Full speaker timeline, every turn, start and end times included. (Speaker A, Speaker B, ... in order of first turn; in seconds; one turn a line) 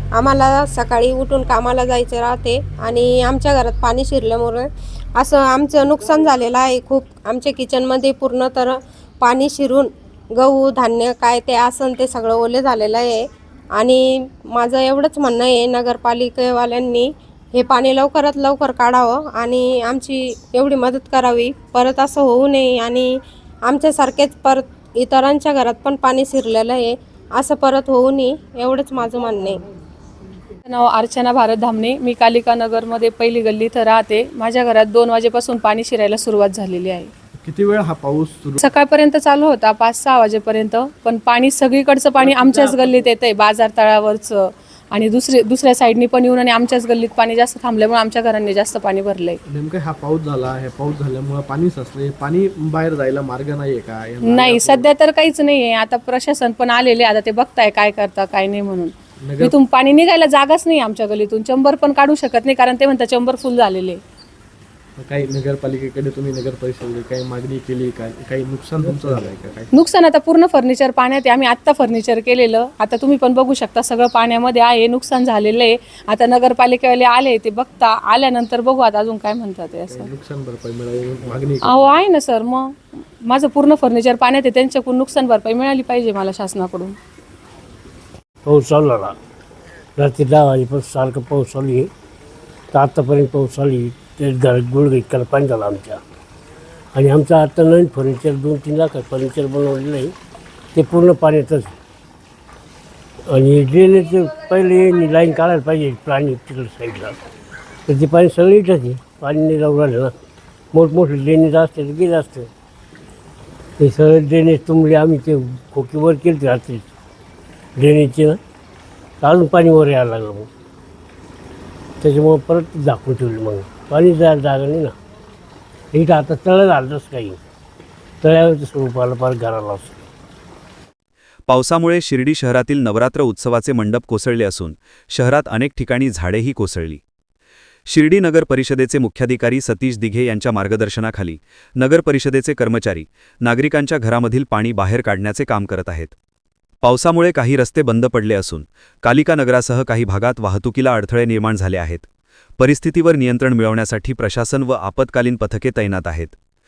Speaker A: 0.1-13.2
Speaker A: 13.8-29.6
Speaker B: 30.7-37.1
Speaker C: 37.4-38.6
Speaker B: 38.6-49.4
Speaker C: 42.1-43.1
Speaker C: 49.5-54.9
Speaker B: 54.2-64.0
Speaker C: 59.2-59.5
Speaker C: 65.0-69.7
Speaker B: 69.7-80.1
Speaker C: 79.9-82.1
Speaker B: 81.6-87.0
Speaker D: 88.5-89.2
Speaker D: 90.0-91.9
Speaker D: 92.7-96.0
Speaker D: 96.9-100.1
Speaker D: 100.7-101.8
Speaker D: 103.3-107.2
Speaker D: 107.9-110.1
Speaker D: 110.7-112.5
Speaker D: 113.8-116.9
Speaker D: 117.8-118.4
Speaker D: 119.2-120.5
Speaker D: 122.0-124.9
Speaker D: 125.9-127.4
Speaker D: 128.2-130.0
Speaker E: 131.5-137.0
Speaker E: 137.9-146.1
Speaker E: 146.8-152.1
Speaker E: 152.6-156.4